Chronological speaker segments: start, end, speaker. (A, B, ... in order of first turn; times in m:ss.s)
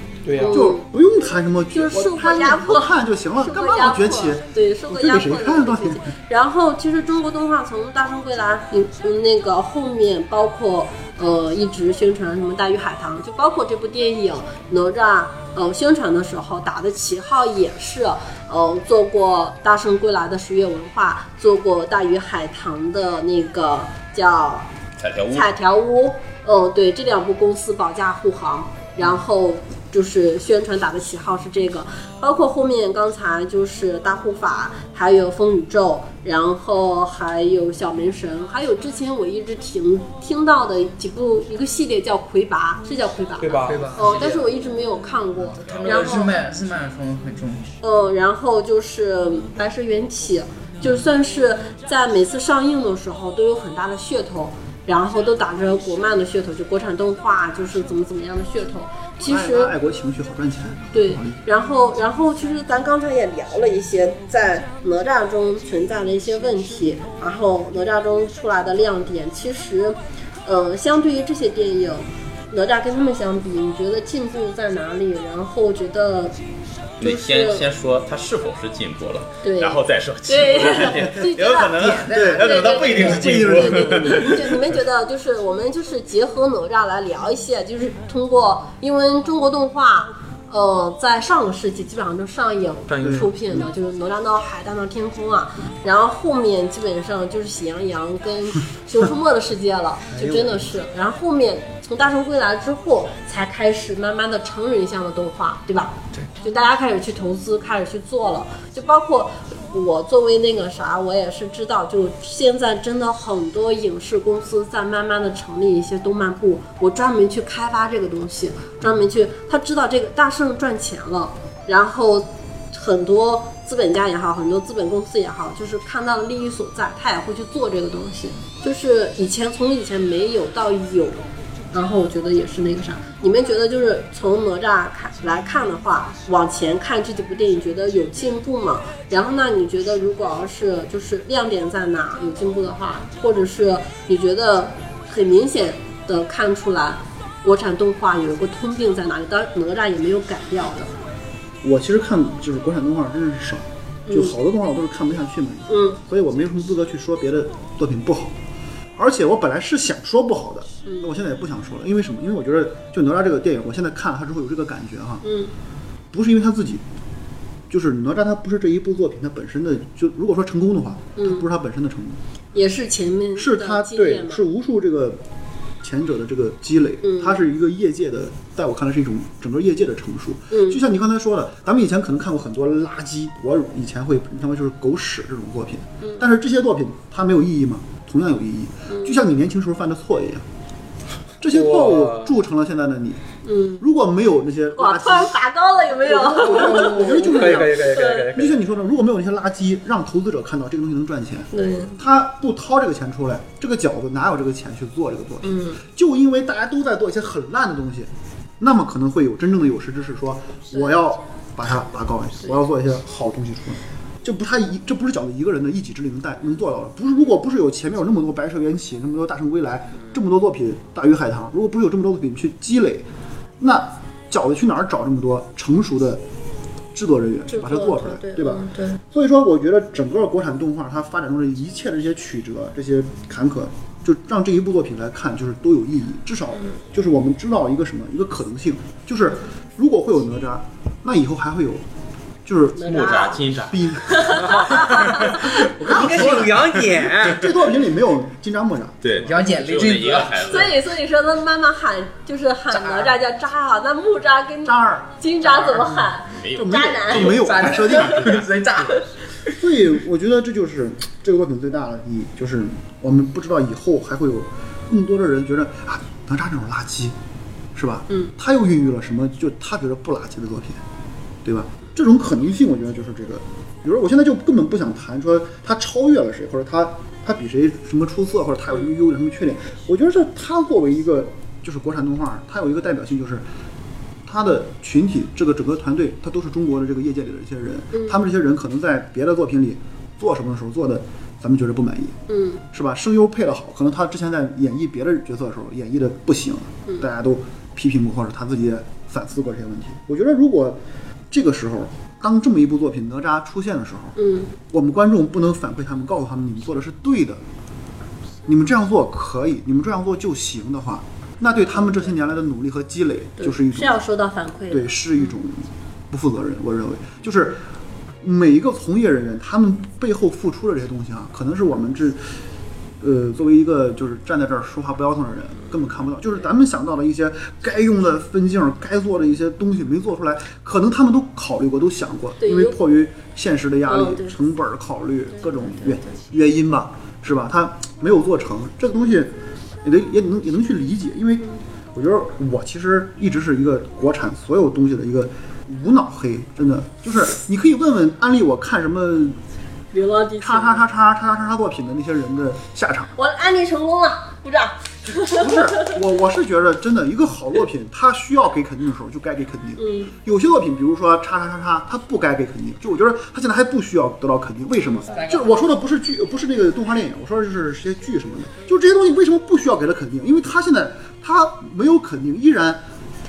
0:00.2-0:00.6 A
0:00.4-0:00.9 B
0:00.4-0:06.1 C
0:01.7-0:24.7 B
0:25.0-0:25.5 D
0:25.3-0:46.4 B
0:43.4-0:43.9 A
0:43.6-0:44.5 E
0:45.6-0:47.7 E
0:47.8-0:59.7 B
0:59.3-1:01.4 C
1:00.9-1:16.4 B
1:17.0-1:24.5 D
1:17.0-1:17.7 B
1:19.4-1:21.9 B
1:21.8-1:22.8 E
1:22.0-1:24.6 C
1:22.4-2:30.9 B
1:32.9-1:33.3 A
1:33.0-1:33.7 C
1:40.1-1:40.6 C
2:31.6-2:38.3 C
2:34.1-2:34.4 B
2:35.7-2:36.0 B
2:39.0-2:45.2 C
2:45.2-2:45.5 B
2:46.1-2:46.8 C
2:47.7-2:52.2 C
2:51.2-2:51.4 B
2:52.5-2:54.4 B
2:53.4-2:55.2 C
2:55.8-3:10.4 C
2:57.0-2:57.4 B
3:00.5-3:00.8 B
3:08.9-3:09.2 B
3:11.4-3:13.2 C
3:11.5-3:12.3 A
3:13.4-3:13.8 B
3:13.8-3:15.4 C
3:14.8-3:18.3 B
3:15.9-3:28.1 C
3:16.4-3:18.6 A
3:21.5-3:22.0 B
3:25.4-3:25.8 B
3:28.6-3:43.1 C
3:43.6-3:46.2 C
3:46.9-4:01.8 C
3:47.5-3:49.0 B
4:02.4-4:03.1 C
4:02.7-4:03.4 B
4:02.8-4:04.3 D
4:03.7-4:09.0 C
4:04.0-4:05.6 B
4:04.5-4:04.8 A
4:05.8-4:07.5 A
4:09.0-4:10.8 D
4:09.2-4:10.6 E
4:10.4-4:17.4 B
4:12.7-4:13.1 E
4:14.6-4:18.4 C
4:16.3-4:18.4 D
4:17.2-4:19.0 E
4:19.5-4:27.1 C
4:27.7-4:30.8 C
4:28.1-4:28.4 B
4:31.4-4:43.4 C
4:44.3-4:52.2 C
4:47.9-4:48.2 B
4:52.3-4:52.6 B
4:52.7-5:00.8 C
5:01.3-5:04.2 C
5:04.2-5:04.5 B
5:04.7-5:07.4 C
5:08.5-5:14.0 C
5:13.4-5:15.3 B
5:14.7-5:17.6 C
5:18.2-5:22.2 C
5:23.0-5:39.3 C
5:32.4-5:32.8 B
5:33.9-5:34.4 B
5:35.4-5:36.1 B
5:39.8-5:49.4 C
5:49.9-5:50.8 B
5:50.4-5:53.1 C
5:53.2-5:55.9 B
5:55.1-6:12.8 C
5:59.8-6:00.1 B
6:05.1-6:05.6 E